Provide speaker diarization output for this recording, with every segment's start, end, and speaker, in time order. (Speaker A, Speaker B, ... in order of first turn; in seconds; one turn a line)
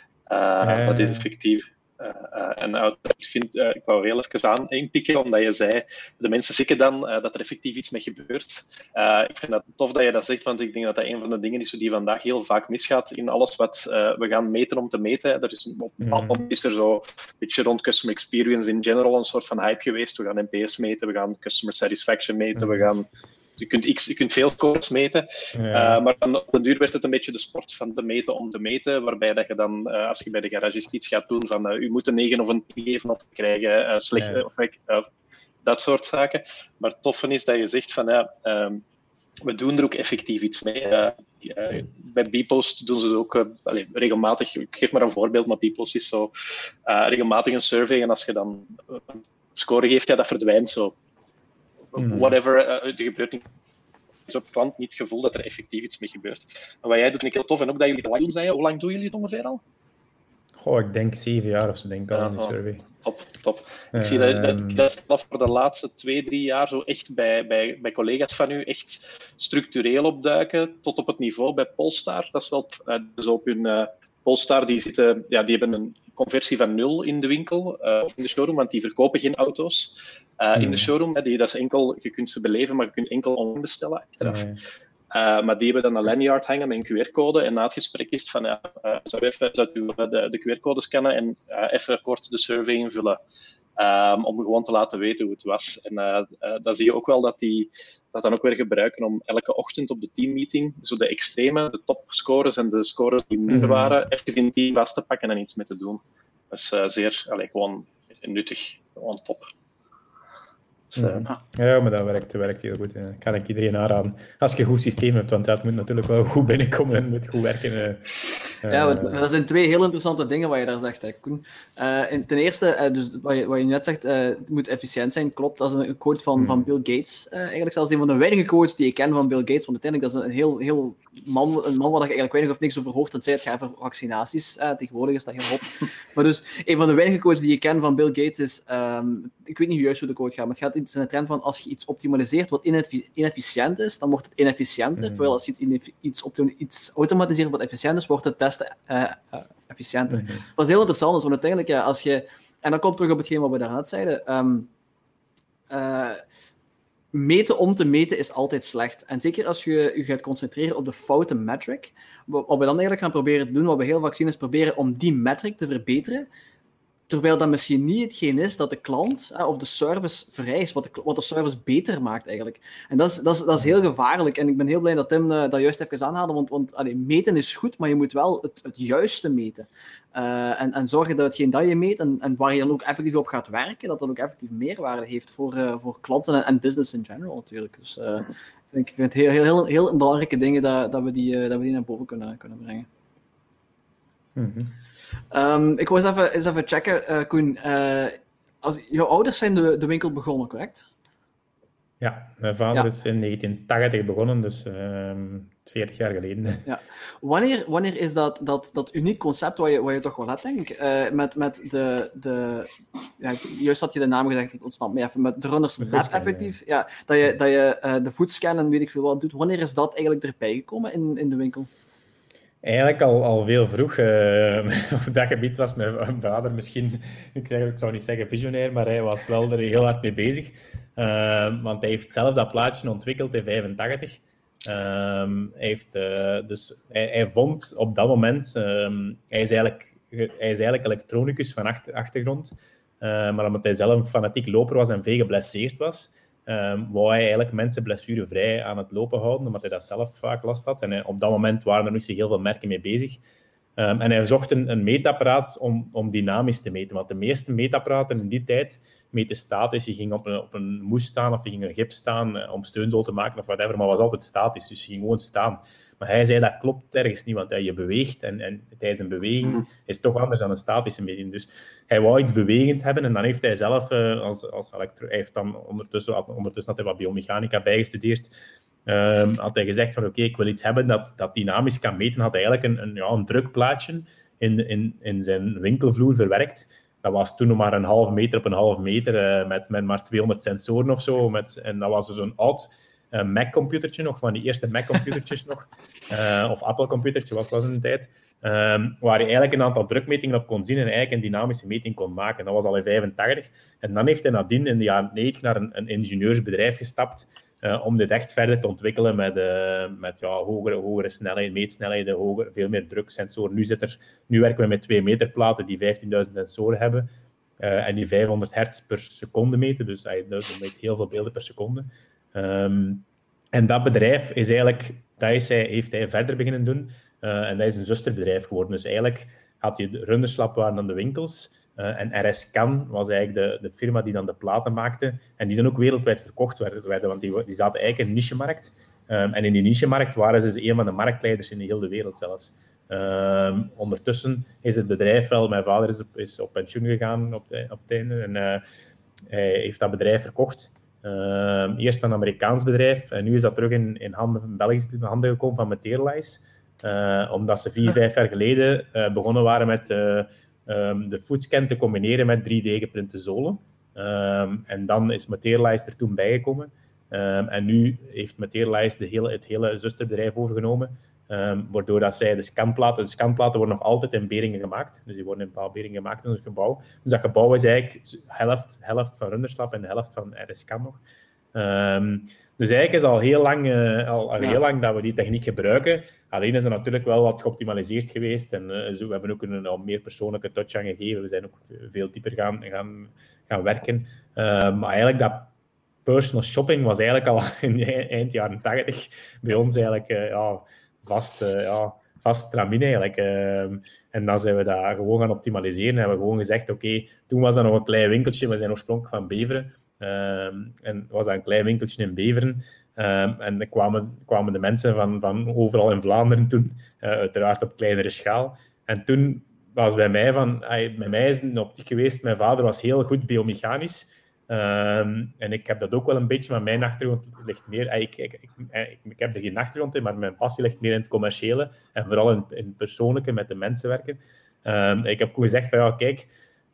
Speaker A: 0.3-23.1
Speaker B: 0.6-1.3
Speaker B: 16.0-16.4
Speaker B: 22.6-22.9
Speaker A: 23.6-35.1
Speaker B: 25.5-26.0
Speaker B: 34.1-34.4
Speaker A: 35.6-38.8
Speaker A: 39.4-46.3
Speaker A: 46.9-50.9
Speaker A: 51.9-53.5
Speaker B: 52.0-52.3
Speaker A: 54.3-59.6
Speaker B: 60.6-62.8
Speaker A: 62.1-84.4
Speaker B: 63.9-64.8
Speaker B: 80.5-80.9
Speaker B: 84.2-84.6
Speaker A: 85.1-93.2
Speaker A: 93.8-109.5
Speaker B: 103.5-104.0
Speaker B: 110.9-119.2
Speaker A: 111.0-111.2
Speaker C: 118.7-154.7
Speaker B: 126.4-126.6
Speaker B: 145.0-145.3
Speaker B: 150.1-150.4
Speaker C: 155.7-156.2
Speaker C: 157.1-166.3
Speaker C: 167.1-192.9
Speaker B: 194.3-194.7
Speaker C: 195.3-200.9
Speaker B: 202.0-206.6
Speaker C: 206.7-221.7
Speaker B: 215.8-216.5
Speaker B: 222.6-253.2
Speaker B: 253.8-278.3
Speaker B: 278.9-348.6
Speaker B: 349.2-381.0
Speaker B: 381.5-395.5
Speaker B: 396.0-436.3